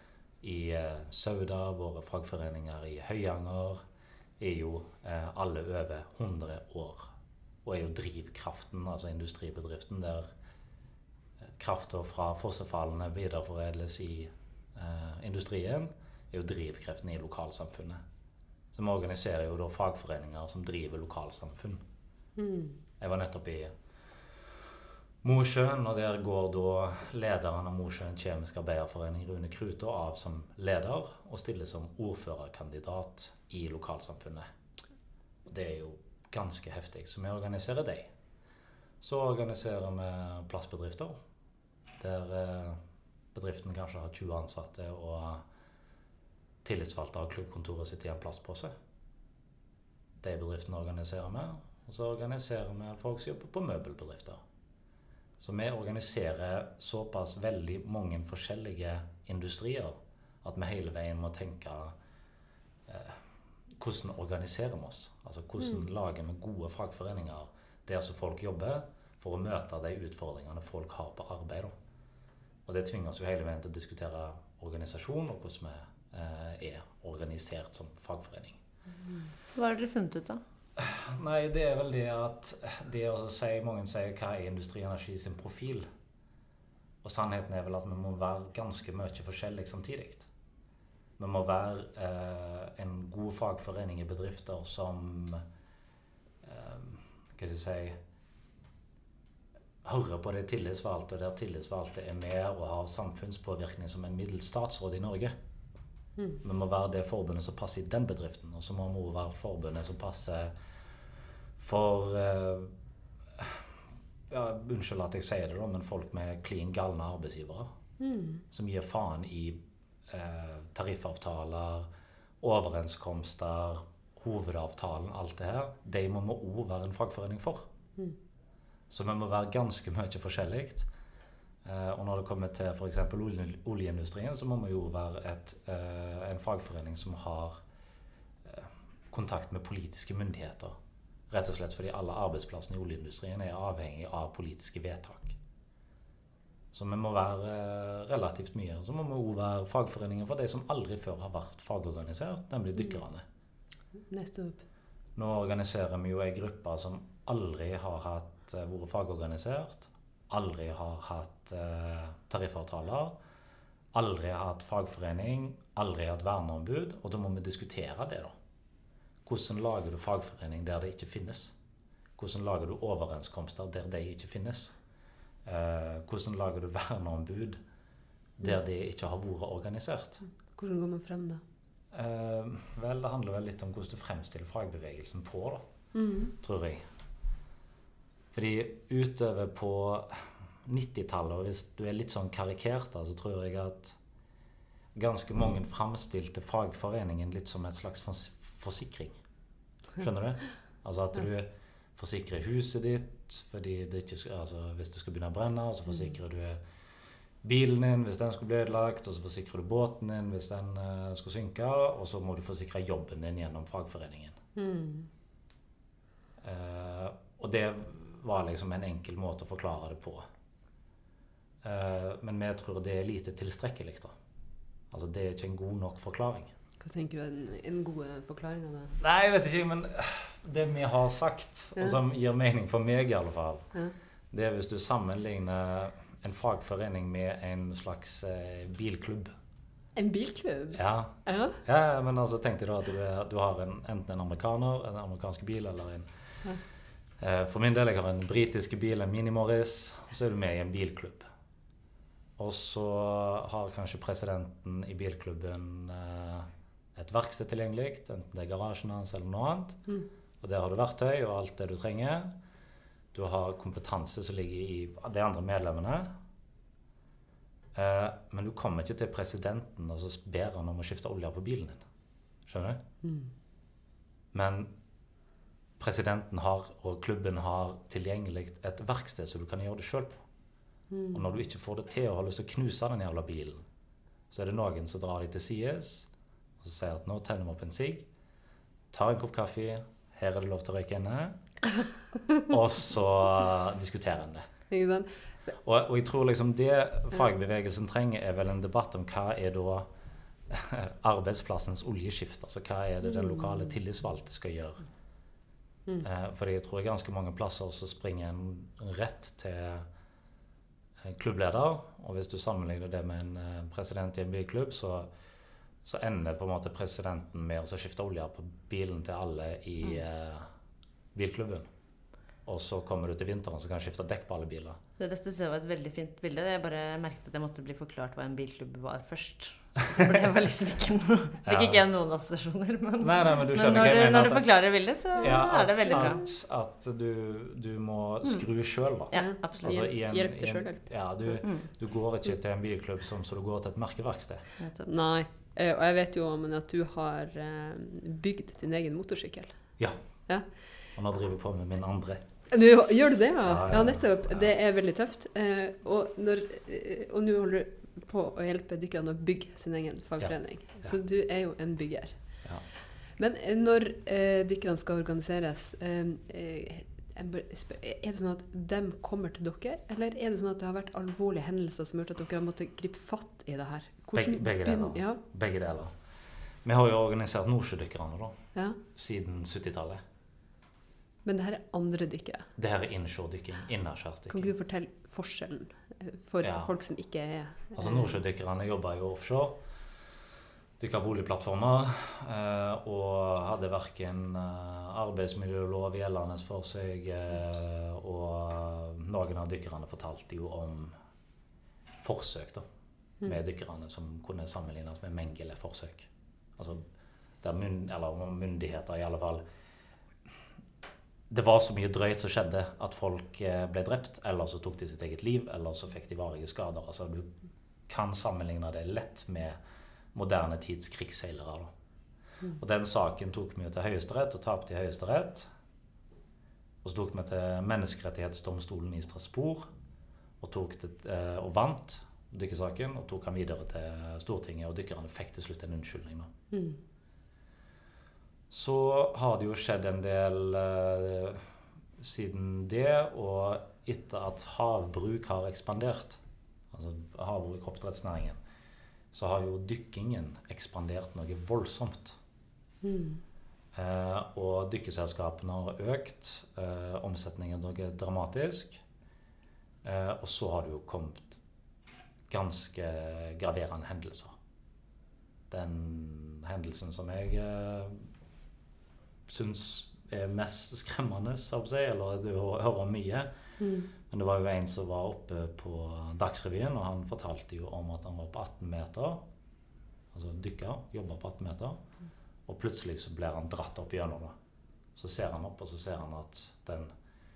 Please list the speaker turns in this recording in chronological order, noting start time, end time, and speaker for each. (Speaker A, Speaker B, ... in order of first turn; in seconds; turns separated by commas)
Speaker A: 0.4-3.8, Speaker A: 4.4-7.1, Speaker A: 7.6-10.3, Speaker A: 11.6-18.0, Speaker A: 18.7-21.8, Speaker B: 22.4-22.8, Speaker A: 23.0-24.6, Speaker A: 25.2-34.5, Speaker A: 35.5-38.1, Speaker A: 39.0-41.2, Speaker A: 42.0-42.8, Speaker A: 43.3-45.4, Speaker A: 46.6-48.7, Speaker A: 50.2-54.4, Speaker A: 55.4-61.9, Speaker A: 62.9-63.2, Speaker A: 63.8-71.7, Speaker A: 72.7-78.6, Speaker C: 79.5-80.4, Speaker A: 80.8-85.8, Speaker A: 87.0-90.3, Speaker A: 91.2-95.4, Speaker A: 96.4-98.0, Speaker A: 99.8-105.3, Speaker A: 106.4-110.5, Speaker A: 111.6-112.7, Speaker A: 113.3-113.7, Speaker A: 114.3-117.7, Speaker B: 118.0-118.4, Speaker A: 118.5-121.9, Speaker A: 122.4-127.7, Speaker A: 128.9-130.9, Speaker A: 131.6-137.6, Speaker A: 138.4-140.7, Speaker A: 141.3-145.3, Speaker A: 146.7-153.2, Speaker B: 154.1-154.6, Speaker A: 155.2-163.1, Speaker A: 163.9-168.3, Speaker A: 169.2-171.5, Speaker A: 172.2-174.7, Speaker A: 175.4-177.6, Speaker A: 178.4-180.2, Speaker B: 180.4-181.4, Speaker A: 181.9-185.6, Speaker B: 185.9-186.3, Speaker A: 186.4-186.8, Speaker A: 188.3-194.0, Speaker A: 194.9-199.2, Speaker A: 200.0-206.6, Speaker A: 207.4-214.4, Speaker B: 214.6-215.1, Speaker A: 216.4-220.2, Speaker A: 221.6-224.1, Speaker A: 224.9-226.5, Speaker B: 226.8-229.0, Speaker A: 229.0-233.7, Speaker A: 234.3-239.3, Speaker B: 239.9-241.6, Speaker A: 240.7-246.1, Speaker A: 247.2-251.2, Speaker A: 252.4-259.8, Speaker A: 260.4-262.3, Speaker A: 263.1-266.1, Speaker A: 267.7-271.8, Speaker A: 272.5-272.8, Speaker B: 273.0-273.3, Speaker A: 274.3-274.7, Speaker A: 275.8-280.2, Speaker B: 280.9-281.2, Speaker A: 281.1-283.6, Speaker A: 284.3-286.1, Speaker A: 286.6-288.0, Speaker A: 288.9-291.4, Speaker A: 292.4-294.5, Speaker B: 294.7-295.5, Speaker A: 295.6-299.9, Speaker A: 300.5-304.8, Speaker A: 306.0-309.9, Speaker A: 311.0-315.1, Speaker A: 315.8-320.5, Speaker A: 321.1-321.7, Speaker A: 322.4-324.8, Speaker C: 325.0-336.2, Speaker A: 331.4-331.8, Speaker A: 333.0-334.5, Speaker A: 335.2-344.4, Speaker B: 335.9-336.2, Speaker C: 339.1-339.9, Speaker B: 339.1-341.4, Speaker C: 344.6-344.9, Speaker B: 344.9-349.6, Speaker A: 350.9-352.2, Speaker B: 352.5-362.2, Speaker A: 353.4-354.5, Speaker A: 360.2-360.9, Speaker B: 363.2-375.2, Speaker A: 374.1-375.9, Speaker A: 376.6-378.3, Speaker A: 378.9-380.0, Speaker B: 381.2-382.5, Speaker A: 382.6-384.5, Speaker B: 384.3-388.1, Speaker A: 386.4-386.7, Speaker A: 387.8-389.6, Speaker A: 390.8-400.9, Speaker A: 402.0-402.6, Speaker A: 403.2-406.9, Speaker A: 407.4-409.4, Speaker A: 411.3-417.3, Speaker A: 417.9-419.6, Speaker A: 420.1-421.7, Speaker A: 422.5-425.5, Speaker A: 426.8-429.7, Speaker A: 430.4-436.3, Speaker B: 436.5-436.8, Speaker A: 438.5-446.2, Speaker A: 446.7-448.4, Speaker A: 449.1-452.2, Speaker B: 452.8-453.2, Speaker A: 453.7-458.8, Speaker A: 459.8-461.4, Speaker A: 462.3-464.3, Speaker A: 465.5-468.1, Speaker A: 469.3-473.3, Speaker B: 473.6-473.9, Speaker A: 474.0-479.2, Speaker A: 480.1-481.8, Speaker A: 482.5-484.3, Speaker A: 484.9-486.9